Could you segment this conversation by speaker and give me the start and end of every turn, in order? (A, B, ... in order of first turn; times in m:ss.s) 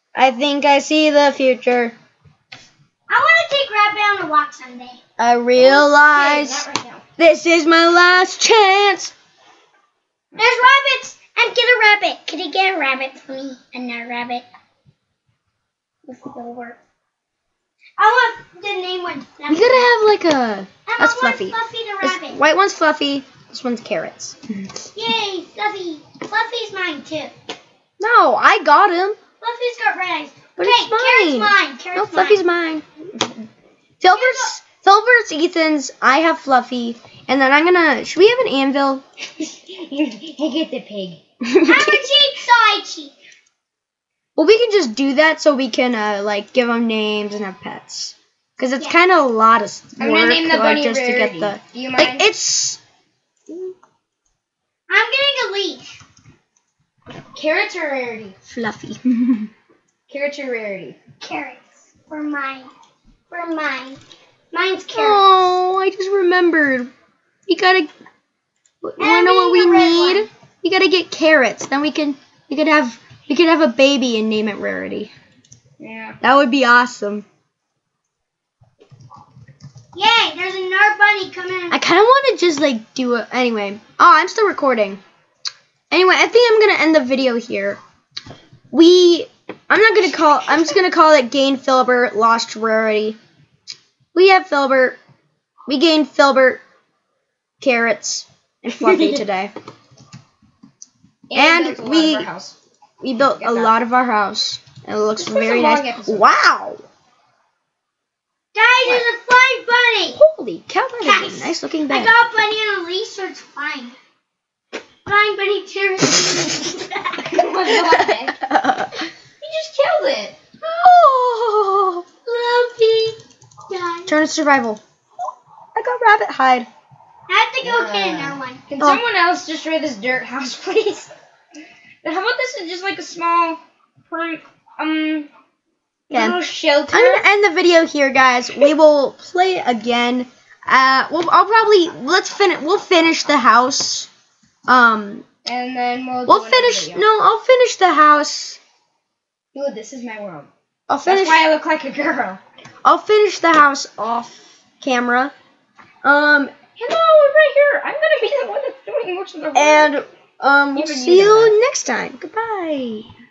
0:00.1-0:01.9 A
0:03.1-0:05.0 B
0:05.2-0:06.6 A
0:05.6-0:07.0 C
0:07.2-0:09.1 A
0:10.3-0:14.4 B
0:16.1-0:16.7 B
0:18.0-0:19.9 B
0:19.5-0:24.6 A
0:20.8-0:22.4 B
0:24.9-0:27.3 B
0:28.0-0:29.2 A
0:29.4-0:32.4 B
0:30.6-0:32.8 A
0:34.0-0:39.0 A
0:34.1-0:34.5 B
0:39.4-0:41.2 C
0:41.4-0:42.0 A
0:41.6-0:43.1 B
0:44.4-0:52.8 A
0:50.0-0:52.3 C
0:53.5-0:53.7 A
0:54.9-0:55.9 B
0:57.3-0:58.4 C
0:58.5-0:59.5 A
1:00.1-1:01.0 C
1:01.2-1:02.7 B
1:03.3-1:04.0 B
1:04.5-1:05.2 B
1:04.9-1:06.9 A
1:07.5-1:07.9 A
1:08.8-1:15.1 A
1:09.0-1:10.3 B
1:15.8-1:16.2 C
1:16.2-1:17.2 A
1:19.9-1:21.8 B
1:21.7-1:25.0 A
1:25.9-1:27.8 A
1:28.7-1:33.2 A
1:34.1-1:35.0 A
1:35.7-1:36.6 A
1:37.6-1:39.5 A
1:38.8-1:39.2 C
1:41.3-1:42.6 C
1:41.3-1:42.3 A
1:43.0-1:46.8 A
1:43.1-1:43.8 C
1:45.2-1:46.3 C
1:48.5-1:50.2 B
1:50.1-1:52.1 A
1:51.0-1:54.0 B
1:55.0-1:57.3 B
1:57.2-1:58.4 C
1:57.7-1:59.1 A
1:59.4-2:00.4 C
2:00.6-2:02.2 A
2:02.2-2:04.2 B
2:04.1-2:04.8 A
2:05.7-2:06.7 A
2:07.3-2:08.6 B
2:07.6-2:11.1 C
2:12.0-2:15.3 C
2:16.1-2:17.3 C
2:16.1-2:16.4 A
2:16.9-2:24.1 A
2:24.7-2:25.2 A
2:25.4-2:27.0 C
2:26.3-2:28.6 A
2:29.5-2:30.5 C
2:30.9-2:31.5 A
2:31.0-2:32.4 C
2:32.8-2:35.3 A
2:36.0-2:36.5 A
2:36.8-2:40.0 C
2:39.5-2:43.1 A
2:40.7-2:41.5 C